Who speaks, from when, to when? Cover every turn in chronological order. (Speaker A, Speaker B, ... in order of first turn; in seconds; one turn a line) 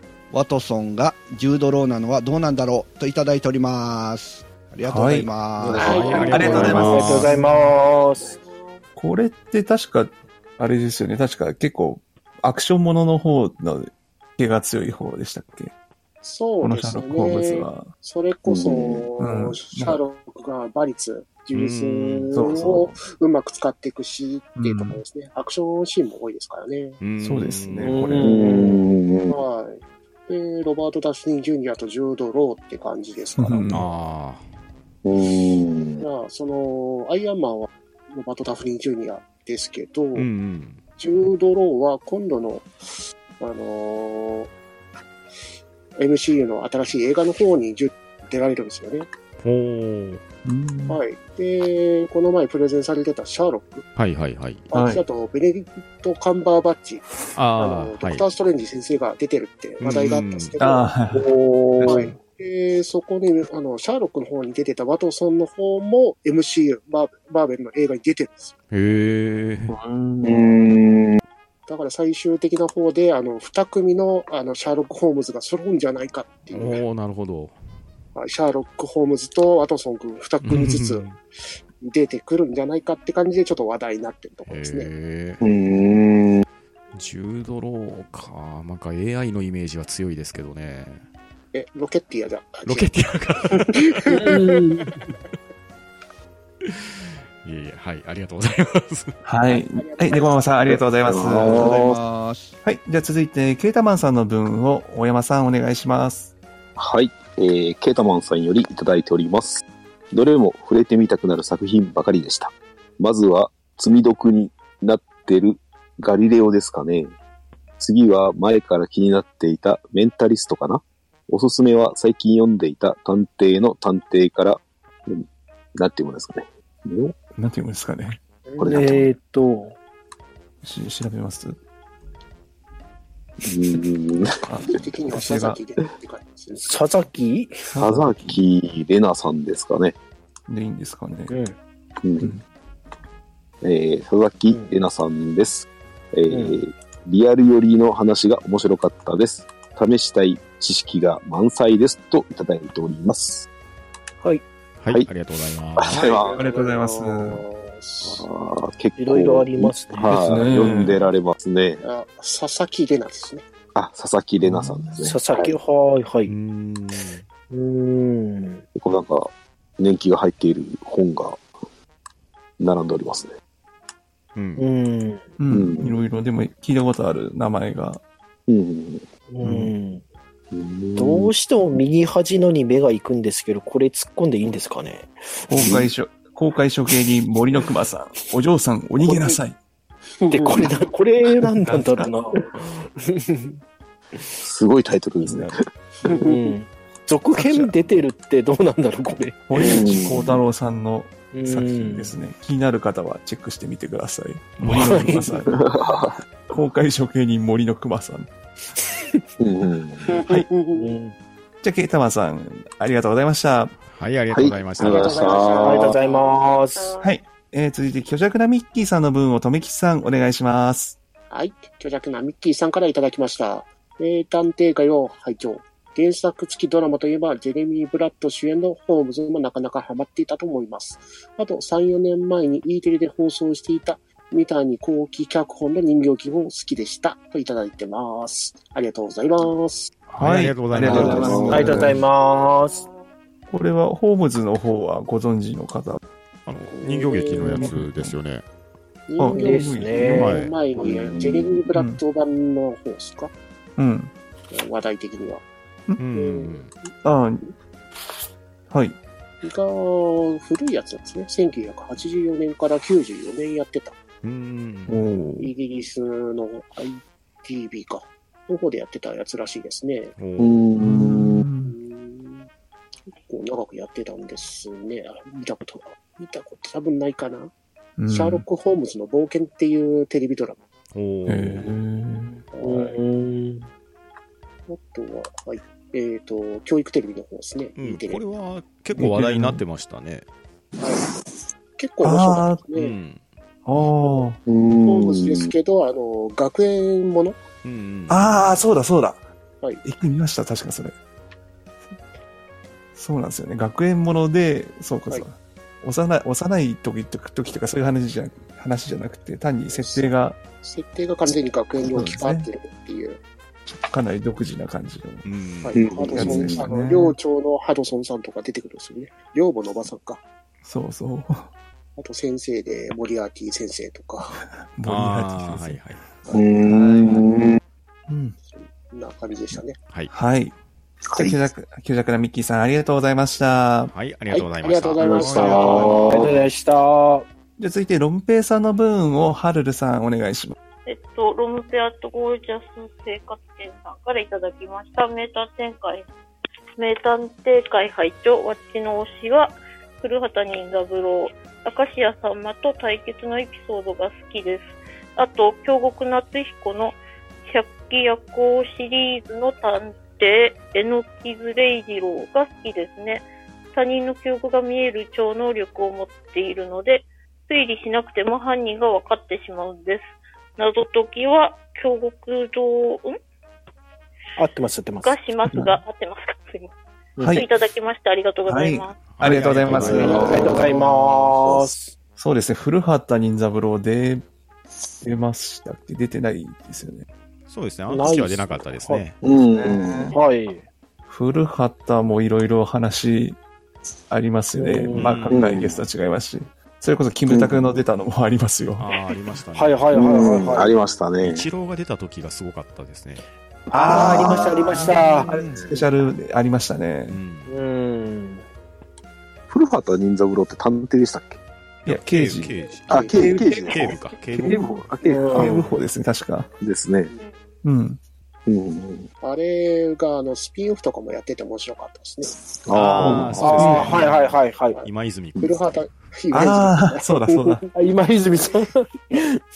Speaker A: 0.3-6.7
Speaker B: 4.8-5.3
Speaker C: 5.7-7.0
Speaker D: 5.7-7.3
Speaker E: 5.8-7.3
Speaker F: 6.0-8.4
Speaker B: 6.3-7.6
Speaker E: 8.2-8.8
Speaker B: 9.0-15.7
Speaker E: 16.2-27.1
Speaker B: 16.6-17.9
Speaker C: 18.5-19.1
Speaker B: 19.2-20.0
Speaker D: 21.5-22.3
Speaker B: 22.3-22.9
Speaker B: 24.6-25.0
Speaker D: 27.0-28.0
Speaker B: 27.2-28.3
Speaker F: 27.8-28.9
Speaker C: 28.2-29.4
Speaker E: 29.3-33.8
Speaker B: 33.4-33.9
Speaker D: 33.7-34.5
Speaker C: 35.0-36.1
Speaker E: 36.0-40.3
Speaker D: 40.1-40.8
Speaker E: 41.0-42.7
Speaker E: 43.4-44.5
Speaker E: 46.0-49.1
Speaker D: 49.4-50.2
Speaker B: 50.5-51.0
Speaker E: 50.9-53.9
Speaker D: 54.0-54.7
Speaker E: 54.7-60.9
Speaker B: 54.7-55.0
Speaker D: 57.4-58.2
Speaker D: 59.8-60.5
Speaker B: 60.6-62.2
Speaker F: 61.1-62.1
Speaker E: 61.9-68.5
Speaker D: 68.7-69.8
Speaker B: 69.7-70.5
Speaker C: 70.2-71.2
Speaker E: 71.7-76.8
Speaker D: 76.5-77.6
Speaker E: 78.2-81.1
Speaker D: 80.4-81.2
Speaker E: 81.8-84.9
Speaker D: 84.5-85.4
Speaker C: 85.4-86.5
Speaker D: 86.9-91.0
Speaker E: 91.5-92.9
Speaker D: 92.7-94.2
Speaker E: 93.5-94.6
Speaker F: 94.1-94.9
Speaker D: 96.7-99.2
Speaker B: 99.2-101.9
Speaker E: 99.5-100.8
Speaker C: 100.7-102.0
Speaker A: 101.4-102.5
Speaker B: 102.6-106.3
Speaker C: 106.8-117.2
Speaker C: 117.8-125.2
Speaker C: 125.8-127.2
Speaker B: 127.3-128.2
Speaker F: 128.5-129.8
Speaker C: 128.6-129.1
Speaker B: 130.6-131.6
Speaker C: 133.4-134.5
Speaker B: 134.5-135.6
Speaker E: 134.7-136.8
Speaker F: 136.6-137.6
Speaker B: 137.7-138.4
Speaker C: 137.8-140.0
Speaker B: 140.5-141.4
Speaker F: 141.3-141.6
Speaker C: 142.0-142.3
Speaker C: 143.6-153.5
Speaker F: 146.3-146.6
Speaker D: 154.8-156.0
Speaker C: 155.8-156.4
Speaker E: 155.9-158.3
Speaker B: 156.3-157.4
Speaker C: 158.0-161.8
Speaker F: 159.0-160.1
Speaker B: 160.1-161.0
Speaker D: 160.4-160.8
Speaker E: 161.8-163.5
Speaker C: 163.8-165.6
Speaker B: 164.4-165.0
Speaker F: 165.0-166.3
Speaker D: 166.3-167.2
Speaker F: 167.5-168.6
Speaker C: 168.8-171.4
Speaker C: 172.6-173.3
Speaker D: 174.4-174.7
Speaker F: 174.6-175.2
Speaker B: 175.4-178.0
Speaker C: 175.5-176.0
Speaker C: 178.5-179.1
Speaker F: 179.3-180.0
Speaker B: 179.4-179.7
Speaker C: 180.5-181.3
Speaker F: 181.0-185.5
Speaker B: 185.5-189.6
Speaker C: 185.6-185.9
Speaker F: 190.3-193.6
Speaker C: 194.4-195.7
Speaker B: 195.2-195.6
Speaker E: 196.1-196.4
Speaker F: 196.1-199.8
Speaker B: 197.3-198.0
Speaker B: 199.5-205.6
Speaker C: 199.6-200.4
Speaker F: 201.3-202.1
Speaker D: 204.6-205.1
Speaker F: 204.9-205.4
Speaker C: 205.5-206.2
Speaker B: 206.5-208.3
Speaker C: 209.4-210.2
Speaker E: 210.1-210.9
Speaker F: 210.7-211.2
Speaker B: 211.6-213.8
Speaker D: 213.9-215.5
Speaker C: 214.3-216.0
Speaker E: 214.6-216.4
Speaker F: 215.6-217.0
Speaker B: 217.0-221.0
Speaker E: 221.3-239.9
Speaker B: 240.1-242.0
Speaker D: 240.2-242.0
Speaker C: 240.8-241.8
Speaker F: 240.9-242.8
Speaker B: 243.5-246.0
Speaker D: 246.5-248.4
Speaker E: 246.7-247.7
Speaker B: 247.4-248.2
Speaker E: 249.1-253.3
Speaker B: 249.2-250.4
Speaker F: 249.3-250.4
Speaker D: 250.1-250.6
Speaker C: 250.8-251.7
Speaker B: 251.7-252.0
Speaker B: 253.8-254.1
Speaker E: 254.5-255.4
Speaker D: 256.0-256.7
Speaker E: 256.1-256.7
Speaker B: 257.0-257.5
Speaker B: 258.7-259.0
Speaker E: 259.4-264.0
Speaker D: 264.2-265.0
Speaker F: 264.9-265.5
Speaker E: 265.4-270.1
Speaker D: 270.2-270.6
Speaker C: 270.4-271.4
Speaker B: 270.8-271.8
Speaker E: 271.7-272.4
Speaker E: 273.1-277.5
Speaker B: 278.0-278.4
Speaker E: 278.1-280.6
Speaker D: 280.9-281.7
Speaker B: 281.3-282.4
Speaker E: 282.5-283.0
Speaker F: 282.6-283.7
Speaker E: 284.7-288.2
Speaker D: 287.8-290.2
Speaker B: 288.9-289.6
Speaker E: 290.8-291.1
Speaker E: 291.8-292.9
Speaker B: 292.0-292.7
Speaker D: 292.7-293.2
Speaker B: 293.7-294.4
Speaker C: 294.5-295.5
Speaker E: 294.8-297.4
Speaker D: 297.6-298.5
Speaker B: 298.1-299.2
Speaker B: 299.8-300.9
Speaker B: 303.0-310.4
Speaker E: 309.7-310.1
Speaker E: 310.6-313.2
Speaker B: 311.8-312.5
Speaker B: 313.7-315.2
Speaker D: 315.2-315.8
Speaker E: 315.6-320.2
Speaker C: 315.7-316.7
Speaker B: 316.1-317.2
Speaker B: 320.6-321.5
Speaker E: 322.0-324.4
Speaker B: 324.6-325.9
Speaker D: 324.9-326.0
Speaker C: 326.3-327.6
Speaker B: 326.6-327.3
Speaker B: 328.1-328.4
Speaker E: 328.5-329.8
Speaker B: 329.5-330.6
Speaker C: 331.1-331.5
Speaker B: 331.1-333.9
Speaker D: 333.9-336.2
Speaker E: 334.3-336.1
Speaker C: 335.0-336.4
Speaker F: 335.0-337.3
Speaker B: 337.6-340.6
Speaker G: 340.9-346.1
Speaker G: 346.8-373.2
Speaker F: 374.4-375.6
Speaker G: 375.0-376.7
Speaker B: 375.5-375.8
Speaker F: 377.2-377.4
Speaker B: 377.2-377.5
Speaker G: 377.3-379.1
Speaker B: 378.5-380.7
Speaker D: 379.1-380.6
Speaker C: 379.7-381.7
Speaker F: 379.9-381.9
Speaker E: 379.9-380.6
Speaker B: 382.2-384.2
Speaker B: 385.0-387.1
Speaker D: 387.5-389.2
Speaker F: 387.9-389.1
Speaker C: 389.2-390.2
Speaker B: 389.5-390.2
Speaker F: 390.1-390.6
Speaker B: 391.1-393.4
Speaker B: 394.1-398.9
Speaker F: 394.6-395.2
Speaker D: 394.9-395.4
Speaker C: 395.3-395.8
Speaker C: 397.3-397.7
Speaker D: 398.8-399.8
Speaker F: 399.5-400.7
Speaker C: 399.9-401.5
Speaker D: 401.2-403.2
Speaker F: 403.7-405.3
Speaker C: 403.7-405.8
Speaker B: 403.8-405.0
Speaker D: 404.9-405.7
Speaker B: 405.7-407.2
Speaker D: 407.1-407.6
Speaker F: 407.5-408.4
Speaker C: 409.5-411.4
Speaker B: 411.9-413.9
Speaker D: 411.9-414.7
Speaker C: 412.9-415.8
Speaker E: 412.9-413.2
Speaker F: 415.0-415.6
Speaker B: 415.3-416.5
Speaker C: 416.6-417.1
Speaker B: 417.6-418.0
Speaker C: 418.5-419.1
Speaker E: 419.2-422.3
Speaker C: 422.6-423.9
Speaker D: 422.7-425.9
Speaker B: 423.0-423.9
Speaker F: 423.4-424.8
Speaker E: 425.4-427.6
Speaker B: 426.3-427.6
Speaker F: 427.8-429.2